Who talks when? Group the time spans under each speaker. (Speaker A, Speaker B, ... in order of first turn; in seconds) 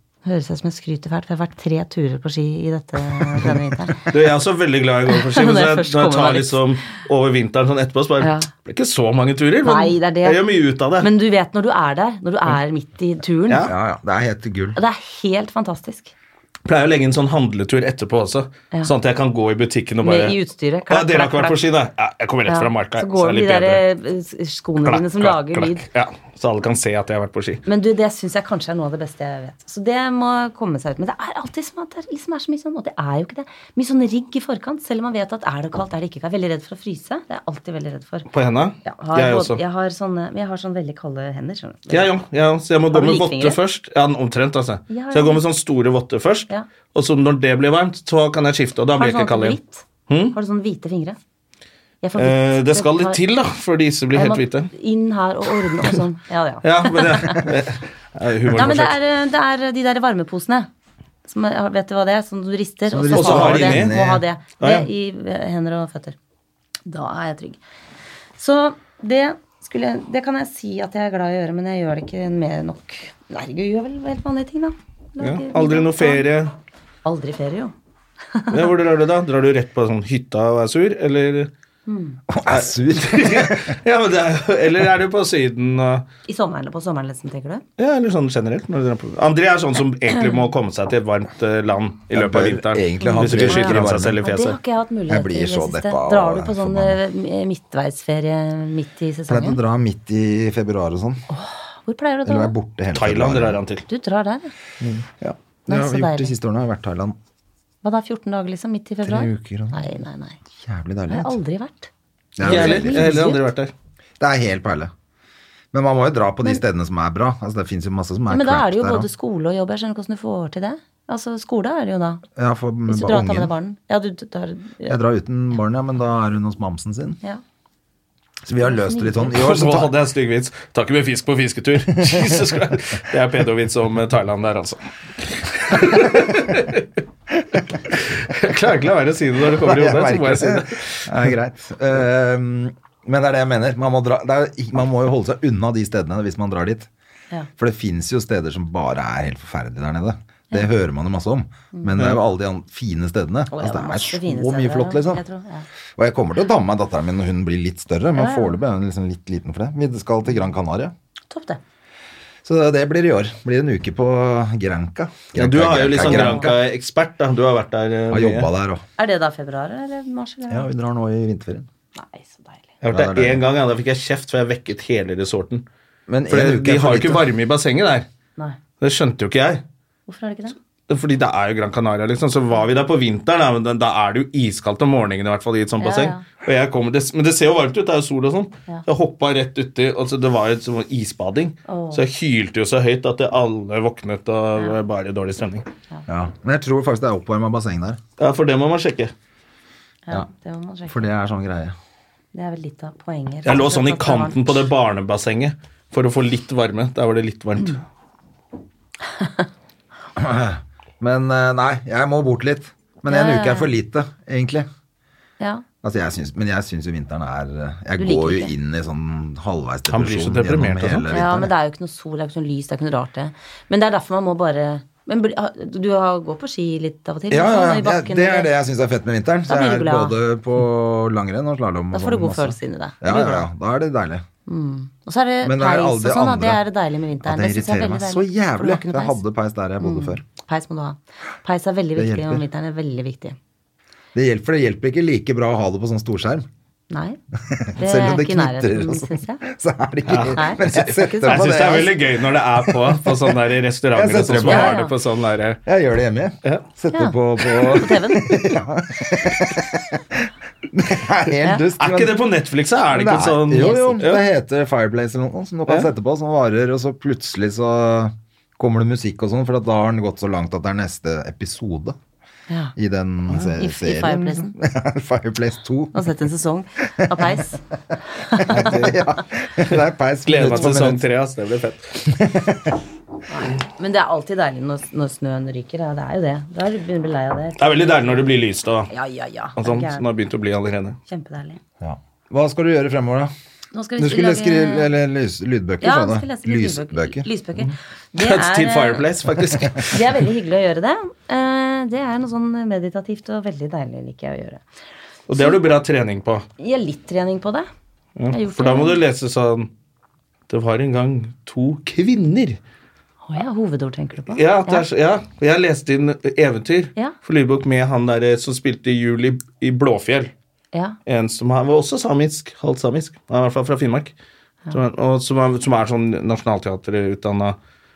Speaker A: 0.2-4.1, 5.1-6.6, 8.2-8.5, 9.6-10.4, 11.0-13.7, 14.8-16.1, 20.0-21.6, 22.5-25.9, 27.7-38.3, 38.9-42.1, 42.9-43.6, 44.9-45.4, 49.0-51.2, 52.0-53.2, 54.1-57.5, 58.5-60.7, 61.3-66.2, 66.9-67.6, 68.4-76.2, 77.0-77.7, 78.3-78.7, 81.9-82.2, 86.2-87.6, 90.2-90.4, 93.0-99.6, 101.3-102.5, 103.9-104.5, 105.7-106.3, 107.8-110.4, 111.1-111.9, 112.4-113.5, 118.3-122.2, 122.9-125.0, 128.6-129.3, 153.5-155.7, 158.2-158.6, 161.3-161.6, 166.0-166.5, 169.0-170.7, 171.9-172.7, 180.1-180.6, 185.8-186.2, 191.7-192.0, 200.1-201.1, 202.3-204.5, 209.2-209.5, 213.1-213.7, 215.4-215.7, 218.0-218.6, 221.1-228.5, 229.5-230.2, 231.9-233.5, 234.5-239.2, 239.8-243.4, 246.9-247.2, 247.8-249.5, 250.3-251.6, 254.4-254.9, 256.9-258.5, 263.5-264.0, 272.5-272.7, 273.6-274.6, 275.9-277.6, 278.1-278.8, 283.3-288.2, 288.9-290.1, 291.1-291.6, 293.7-294.9, 295.8-299.1, 299.8-304.6, 305.4-305.6, 306.6-307.7, 308.3-309.0, 313.3-314.9
Speaker B: 3.3-3.5, 13.7-14.8, 62.9-64.2, 82.3-83.8, 92.1-94.2, 95.1-97.0, 99.3-101.2, 102.3-103.6, 105.2-107.2, 109.0-109.9, 110.6-111.4, 112.4-113.3, 114.2-114.9, 115.7-119.1, 122.4-123.5, 124.9-127.2, 128.4-129.9, 139.5-146.9, 147.6-155.2, 156.0-160.9, 162.4-166.6, 168.1-168.8, 170.5-171.7, 172.9-173.4, 176.1-177.3, 196.1-198.0, 200.9-201.8, 210.2-214.7, 215.8-221.5, 227.3-234.3, 235.4-236.6, 237.2-240.2, 242.0-242.4, 244.1-246.5, 247.4-252.0, 252.7-253.3, 253.9-254.8, 255.7-262.1, 262.9-272.0, 272.8-276.1, 278.4-281.0, 282.1-282.8, 291.8-293.3, 294.0-297.3
Speaker C: 4.1-11.1, 16.7-23.8, 24.8-27.6, 38.3-39.6, 41.9-50.4, 52.2-54.7, 56.6-59.0, 63.1-63.9, 64.6-64.9, 75.2-76.5, 78.5-81.5, 82.5-86.0, 87.8-94.6, 102.9-103.8, 112.4-113.7, 129.3-136.9, 137.9-141.3, 165.3-168.5, 172.8-175.6, 176.3-178.1, 178.8-179.6, 180.9-195.7, 198.2-199.1, 203.4-207.8, 219.9-221.1, 250.1-255.6, 261.8-264.2, 280.3-282.0, 287.6-288.9, 289.6-291.0, 298.1-300.1, 305.3-306.5, 308.2-309.7, 310.5-312.6, 314.3-320.3, 321.1-324.1, 324.7-327.6